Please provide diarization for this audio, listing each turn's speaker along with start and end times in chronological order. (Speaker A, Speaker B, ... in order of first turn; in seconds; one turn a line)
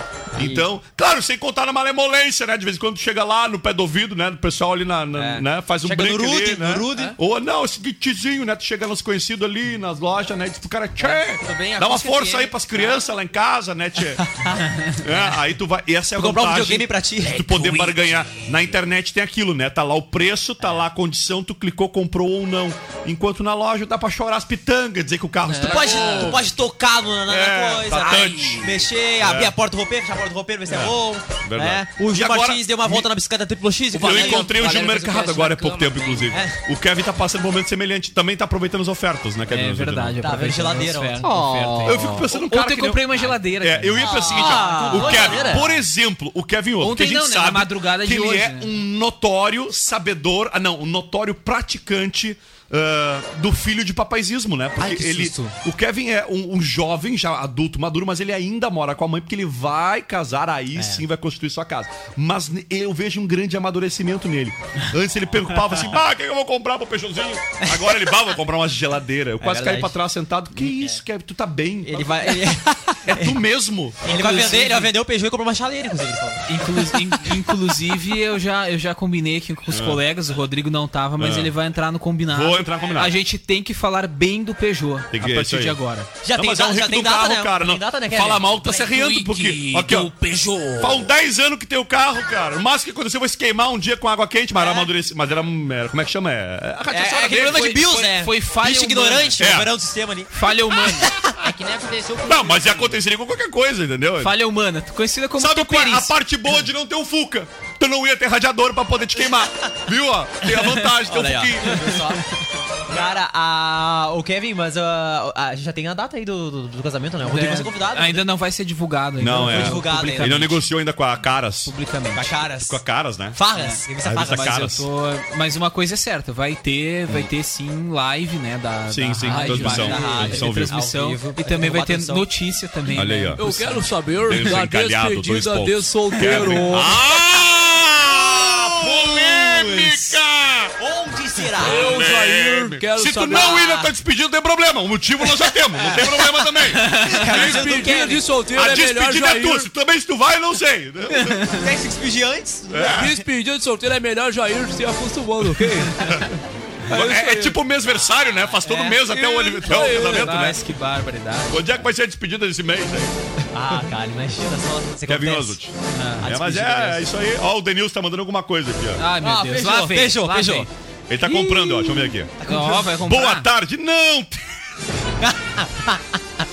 Speaker A: 0.3-14.2
Speaker B: 5.1-7.1
Speaker B: 11.0-13.0
Speaker B: 14.2-15.3
Speaker A: 15.0-26.4
Speaker B: 16.1-17.9
Speaker C: 25.5-26.4
Speaker B: 25.6-34.5
Speaker A: 27.3-29.5
Speaker C: 27.9-28.8
Speaker A: 30.7-33.1
Speaker A: 33.9-40.1
Speaker C: 33.9-36.4
Speaker B: 36.3-36.6
Speaker D: 39.5-45.6
Speaker B: 40.2-41.3
Speaker C: 41.2-42.0
Speaker A: 41.8-74.1
Speaker B: 44.0-45.8
Speaker D: 46.8-48.7
Speaker C: 54.8-55.5
Speaker B: 60.8-61.0
Speaker B: 67.6-68.1
Speaker B: 69.4-69.9
Speaker B: 70.5-71.0
Speaker B: 71.8-73.4
Speaker B: 74.0-77.0
Speaker D: 74.1-74.9
Speaker D: 76.5-86.1
Speaker A: 79.7-80.0
Speaker A: 81.2-81.5
Speaker A: 82.3-83.1
Speaker A: 85.1-85.8
Speaker B: 86.2-88.7
Speaker A: 86.3-90.1
Speaker C: 88.6-91.1
Speaker A: 90.8-97.8
Speaker B: 94.6-94.9
Speaker B: 96.9-101.5
Speaker D: 97.2-99.4
Speaker A: 99.4-99.7
Speaker D: 100.3-101.1
Speaker C: 101.4-103.0
Speaker A: 102.2-104.3
Speaker D: 104.2-106.1
Speaker A: 105.4-112.0
Speaker B: 111.0-112.3
Speaker B: 112.9-118.2
Speaker D: 117.2-120.5
Speaker A: 119.2-121.7
Speaker B: 119.3-120.6
Speaker D: 121.7-122.3
Speaker B: 122.1-122.8
Speaker A: 122.6-123.4
Speaker B: 123.3-124.7
Speaker D: 123.5-134.5
Speaker A: 124.0-124.9
Speaker A: 128.9-130.7
Speaker B: 129.3-132.3
Speaker A: 132.9-133.6
Speaker C: 133.4-136.9
Speaker A: 134.2-140.7
Speaker D: 136.3-136.7
Speaker B: 138.3-140.2
Speaker B: 140.8-142.0
Speaker A: 141.6-147.7
Speaker C: 141.6-143.5
Speaker B: 143.0-143.9
Speaker D: 146.8-147.1
Speaker B: 147.0-148.3
Speaker C: 147.3-149.7
Speaker A: 148.5-151.4
Speaker D: 151.1-151.6
Speaker B: 151.6-153.2
Speaker A: 152.7-153.1
Speaker C: 152.8-156.1
Speaker C: 156.9-157.6
Speaker A: 156.9-160.6
Speaker B: 158.6-159.0
Speaker C: 159.1-160.5
Speaker D: 159.7-161.6
Speaker A: 161.5-163.1
Speaker B: 163.5-167.1
Speaker A: 165.1-169.0
Speaker D: 169.0-170.7
Speaker B: 169.2-170.7
Speaker A: 171.1-174.4
Speaker D: 171.2-171.9
Speaker D: 172.4-173.5
Speaker B: 172.5-172.8
Speaker B: 175.2-176.0